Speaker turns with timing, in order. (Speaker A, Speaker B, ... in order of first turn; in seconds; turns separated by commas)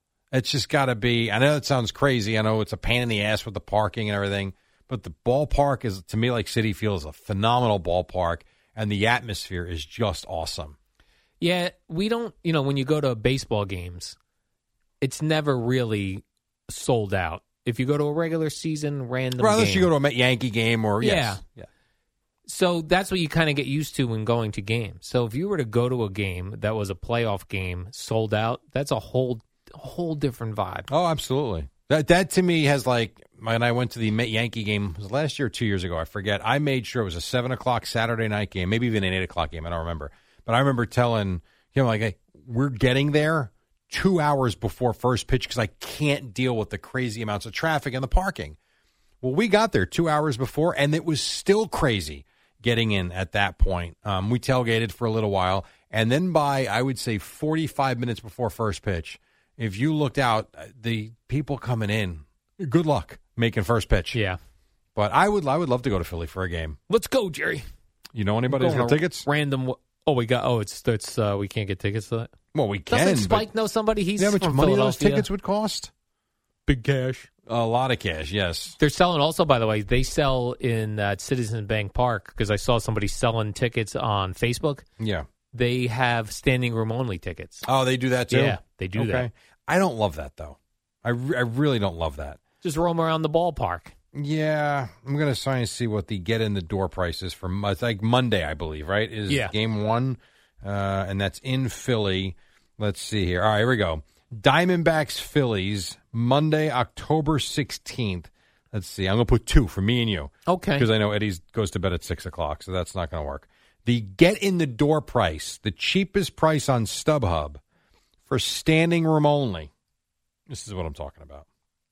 Speaker A: 0.3-10.8, Speaker B: 11.4-14.2, Speaker B: 15.0-19.9, Speaker A: 19.4-21.7, Speaker B: 21.0-21.4, Speaker B: 22.4-30.9, Speaker A: 30.9-48.5, Speaker A: 49.2-64.2, Speaker B: 64.1-64.4, Speaker A: 64.9-66.8, Speaker B: 66.9-67.6, Speaker A: 68.1-69.3, Speaker B: 68.5-72.3, Speaker A: 72.5-73.5, Speaker B: 72.9-75.3, Speaker A: 74.2-75.9, Speaker B: 76.7-77.3, Speaker A: 77.5-78.8, Speaker B: 78.8-84.8, Speaker A: 85.0-85.2, Speaker B: 85.5-87.7, Speaker A: 87.7-92.4, Speaker B: 88.3-89.3, Speaker B: 92.6-93.9, Speaker A: 94.1-117.6, Speaker B: 99.3-99.5, Speaker B: 110.5-110.9, Speaker A: 118.3-119.7, Speaker A: 120.5-121.4